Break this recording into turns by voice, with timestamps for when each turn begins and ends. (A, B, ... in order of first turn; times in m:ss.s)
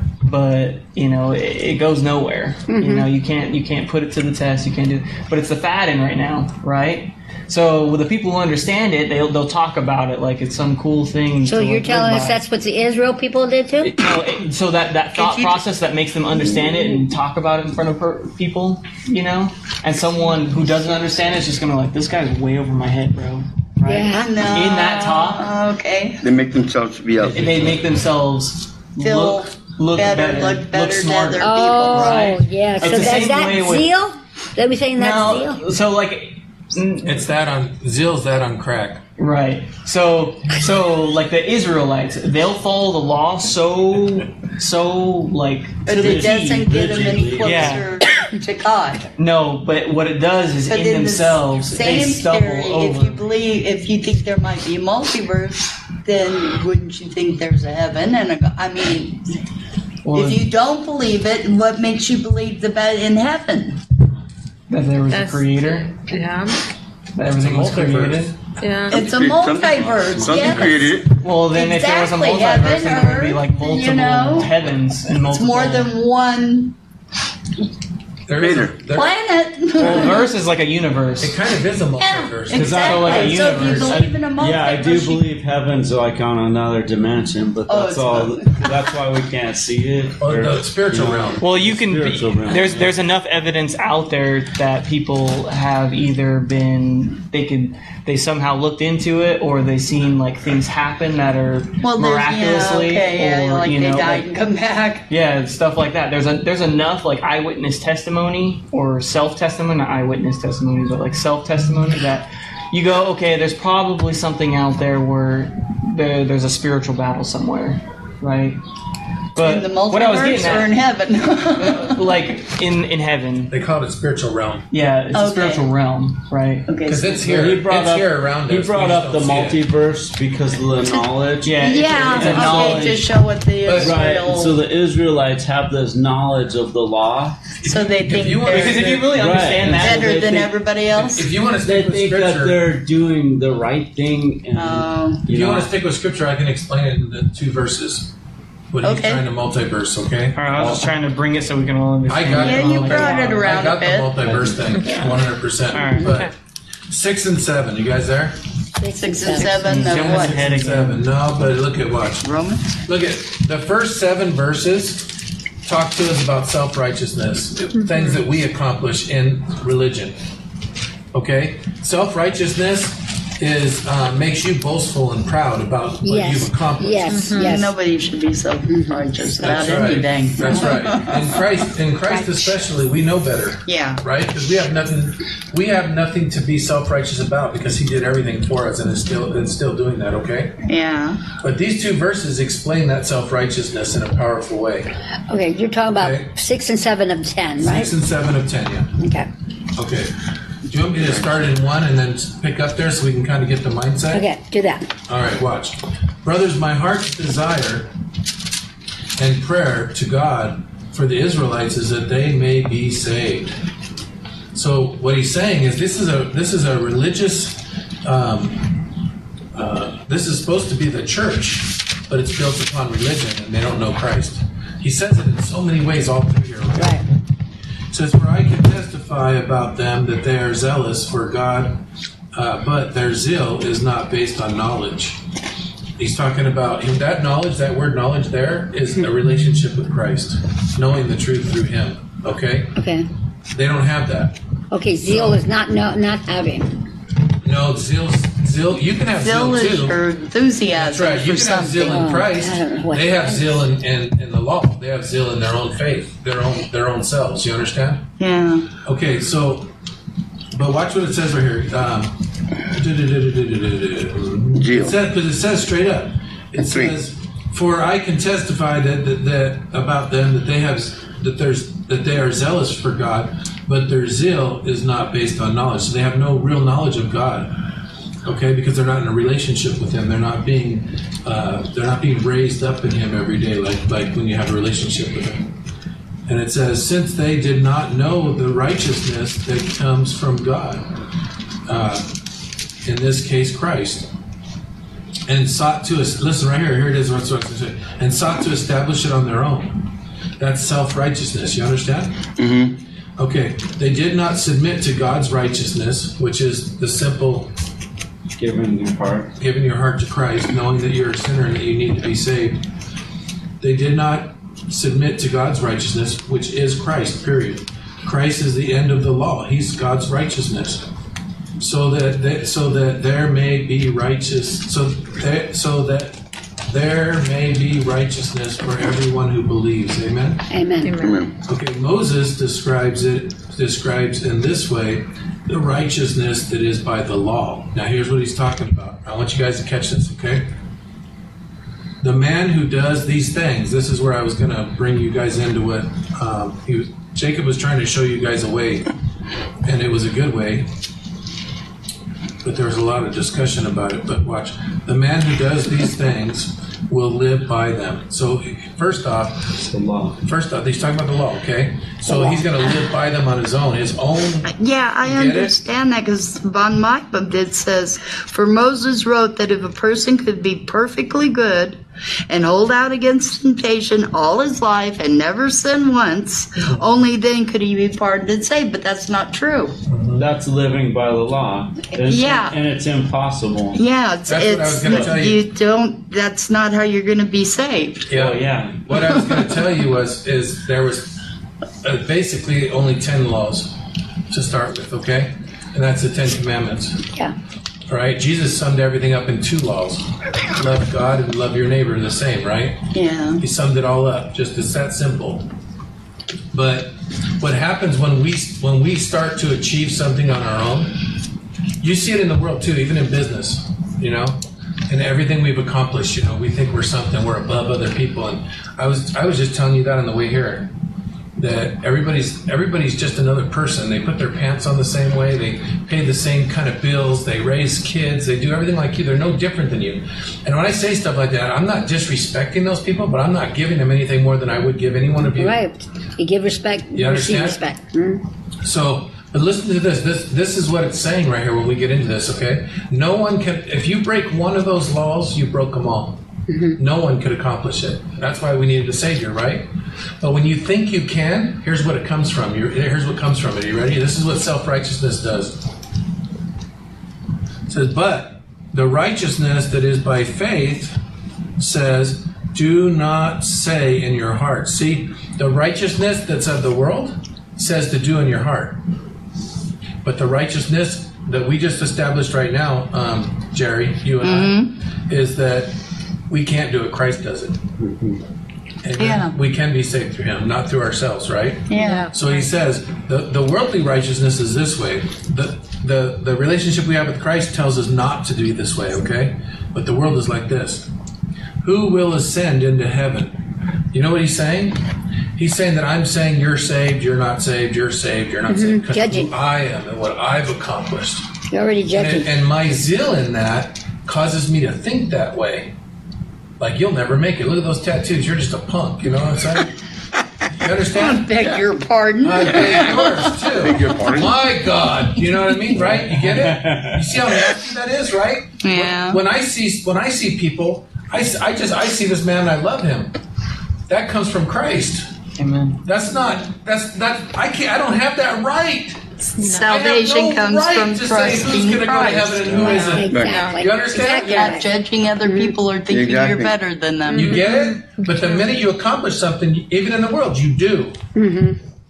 0:00.2-0:12.4 A
0:02.7-0:03.1 B
0:11.4-0:14.0 B
0:13.8-0:25.5 A
0:15.2-0:15.6 C
0:23.8-0:24.4 B
0:24.1-0:26.2 C
0:26.2-0:27.8 D
0:27.2-0:33.9 A
0:29.0-0:33.3 C
0:31.4-0:35.6 B
0:35.0-0:37.3 A
0:37.0-0:39.0 E
0:39.2-0:46.7 A
0:45.9-0:49.1 C
0:45.9-0:47.9 F
0:47.4-0:47.9 A
0:49.2-0:53.2 A
0:50.7-0:59.2 C
1:00.0-1:00.5 A
1:00.1-1:03.8 C
1:04.7-1:05.9 A
1:05.1-1:06.6 G
1:07.2-1:08.3 A
1:07.3-1:08.3 E
1:08.6-1:09.0 G
1:08.9-1:16.7 C
1:08.9-1:11.1 D
1:10.2-1:10.6 F
1:11.2-1:15.9 A
1:18.3-1:19.1 E
1:18.4-1:18.8 D
1:18.9-1:20.3 C
1:19.8-1:21.4 A
1:21.2-1:23.7 E
1:22.0-1:25.3 C
1:22.5-1:24.1 A
1:22.6-1:33.0 F
1:27.7-1:28.9 C
1:30.2-1:31.4 E
1:31.4-1:44.3 A
1:41.8-1:45.1 C
1:45.1-1:58.6 A
1:59.4-2:00.8 A
1:59.4-2:02.1 C
2:01.6-2:03.5 A
2:03.5-2:04.7 E
2:04.7-2:06.7 A
2:05.1-2:05.7 C
2:06.7-2:07.3 C
2:06.9-2:09.6 E
2:07.2-2:13.0 F
2:10.8-2:14.6 C
2:11.4-2:13.1 A
2:13.6-2:14.0 E
2:13.8-2:17.5 F
2:17.6-2:19.1 E
2:17.6-2:19.0 C
2:18.5-2:20.5 A
2:18.9-2:20.5 F
2:19.7-2:21.3 C
2:20.9-2:22.6 E
2:21.6-2:25.7 F
2:24.6-2:25.2 C
2:25.3-2:28.1 E
2:28.7-2:30.9 E
2:28.8-2:29.2 C
2:30.4-2:33.6 A
2:32.1-2:36.3 E
2:32.4-2:34.3 C
2:34.2-2:34.7 F
2:34.8-2:35.2 A
2:35.7-2:36.2 A
2:36.9-2:38.4 E
2:38.8-2:39.6 B
2:39.0-2:40.4 C
2:39.3-2:41.0 A
2:39.8-2:42.3 E
2:42.2-2:42.7 C
2:42.9-2:45.1 E
2:45.6-2:50.2 E
2:47.8-2:48.2 G
2:51.1-2:57.3 E
2:56.0-2:57.7 B
2:57.1-2:57.6 G
2:57.4-3:01.4 C
2:58.7-2:59.7 B
2:59.4-3:10.6 E
3:03.7-3:04.0 C
3:10.7-3:11.2 C
3:11.4-3:14.9 E
3:15.3-3:17.9 B
3:16.0-3:16.3 E
3:17.6-3:19.0 E
3:19.0-3:19.3 B
3:19.8-3:20.1 E
3:20.7-3:24.3 E
3:24.1-3:24.9 B
3:25.1-3:27.9 E
3:29.2-3:33.5 E
3:34.5-3:38.8 E
3:39.6-3:47.1 E
3:46.8-3:47.0 B
3:47.9-3:51.8 E
3:52.3-3:55.2 E
3:56.0-4:02.8 E
4:02.8-4:03.1 B
4:03.5-4:04.4 E
4:04.7-4:06.8 B
4:05.0-4:05.4 E
4:07.4-4:10.0 E
4:09.2-4:12.2 C
4:10.8-4:18.1 E
4:11.8-4:13.6 B
4:18.2-4:18.7 C
4:18.8-4:19.7 E
4:20.5-4:22.2 E
4:22.7-4:37.6 E
4:24.6-4:25.0 D
4:26.6-4:27.0 D
4:38.2-4:45.5 E
4:46.3-4:50.9 E
4:51.7-4:52.1 E
4:52.8-4:54.1 E
4:55.3-5:02.2 E
5:02.4-5:02.8 D
5:03.2-5:07.5 E
5:08.4-5:09.3 F
5:09.4-5:12.6 E
5:13.6-5:20.8 E
5:21.6-5:30.5 E
5:30.5-5:31.0 B
5:30.8-5:31.2 G
5:31.0-5:31.3 D
5:31.5-5:40.5 E
5:42.0-5:48.9 E
5:49.6-5:50.7 E
5:52.4-5:59.6 E
5:59.6-6:00.2 F
6:00.2-6:05.5 E
6:02.1-6:02.4 B
6:04.5-6:19.8 C
6:19.9-6:20.2 E
6:20.1-6:23.8 F
6:22.0-6:22.6 C
6:23.8-6:28.1 C
6:24.3-6:25.5 E
6:28.1-6:31.2 E
6:28.1-6:28.9 F
6:31.8-6:33.8 E
6:34.3-6:37.0 E
6:37.9-6:45.5 E
6:42.9-6:43.4 C
6:46.5-6:51.0 E
6:51.8-7:00.7 E
7:01.4-7:15.7 E
7:15.3-7:18.2 B
7:17.0-7:17.6 E
7:18.6-7:26.2 E
7:26.5-7:26.8 B
7:26.8-7:29.7 E
7:30.2-7:35.6 E
7:37.7-7:41.0 E
7:41.6-7:48.8 E
7:50.0-7:55.8 E
7:54.2-7:54.7 C
7:56.3-7:57.6 E
7:57.8-7:58.2 F
7:58.8-8:10.9 E
7:59.0-7:59.3 C
8:01.7-8:02.1 C
8:01.7-8:02.5 G
8:11.6-8:13.4 E
8:13.9-8:14.8 E
8:15.4-8:21.3 E
8:18.5-8:19.3 B
8:21.5-8:22.3 B
8:21.9-8:25.7 E
8:26.6-8:29.8 E
8:30.6-8:31.4 E
8:30.9-8:33.4 C
8:32.2-8:43.2 E
8:32.5-8:33.0 D
8:33.6-8:34.3 D
8:35.8-8:37.2 F
8:38.6-8:39.2 C
8:43.9-8:45.1 E
8:45.4-8:45.8 A
8:45.8-8:49.0 E
8:49.4-8:49.8 G
8:49.4-8:52.6 C
8:49.6-8:54.6 E
8:52.5-8:54.7 B
8:52.5-8:53.4 D
8:53.2-8:53.7 G
8:54.1-8:57.4 C
8:55.2-8:55.5 B
8:55.9-8:56.6 D
8:57.1-8:58.5 G
8:57.1-9:01.0 E
9:01.2-9:01.6 B